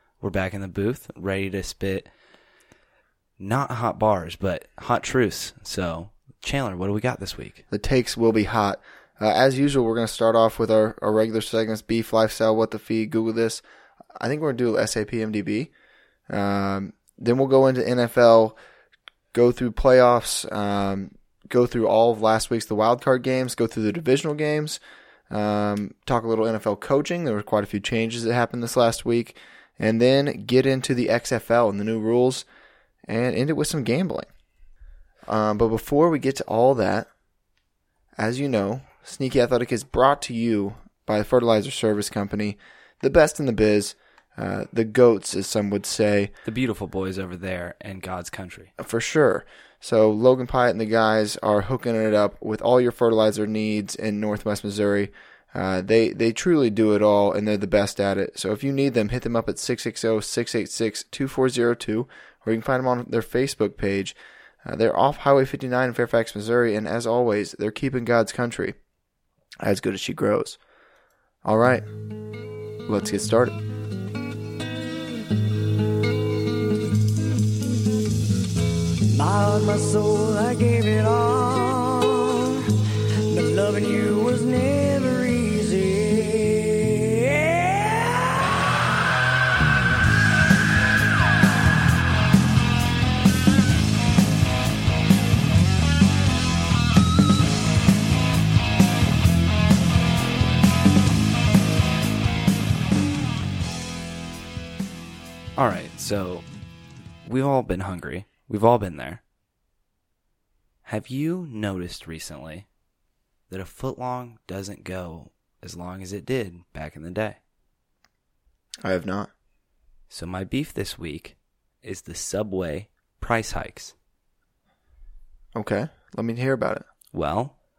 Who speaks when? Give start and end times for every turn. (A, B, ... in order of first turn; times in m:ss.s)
0:00.2-0:02.1 A
0:03.4-0:07.6 A
0:07.7-0:13.6 B
0:14.2-0:15.7 B
0:16.3-0:18.6 B
0:19.3-0:32.4 B
0:33.1-0:34.3 B
0:35.3-0:37.1 B
0:38.2-0:46.3 B
0:46.4-0:48.7 A
0:48.8-1:08.8 B
1:09.6-1:10.6 B
1:11.4-1:11.8 B
1:12.9-1:13.6 B
1:19.1-1:22.7 C
1:23.3-1:28.5 C
1:45.6-1:46.4 A
1:47.2-1:49.2 A
1:50.8-1:52.7 A
1:53.5-1:57.4 A
1:58.8-1:59.3 B
2:00.1-2:03.9 A
2:05.5-2:06.8 B
2:07.1-2:07.5 A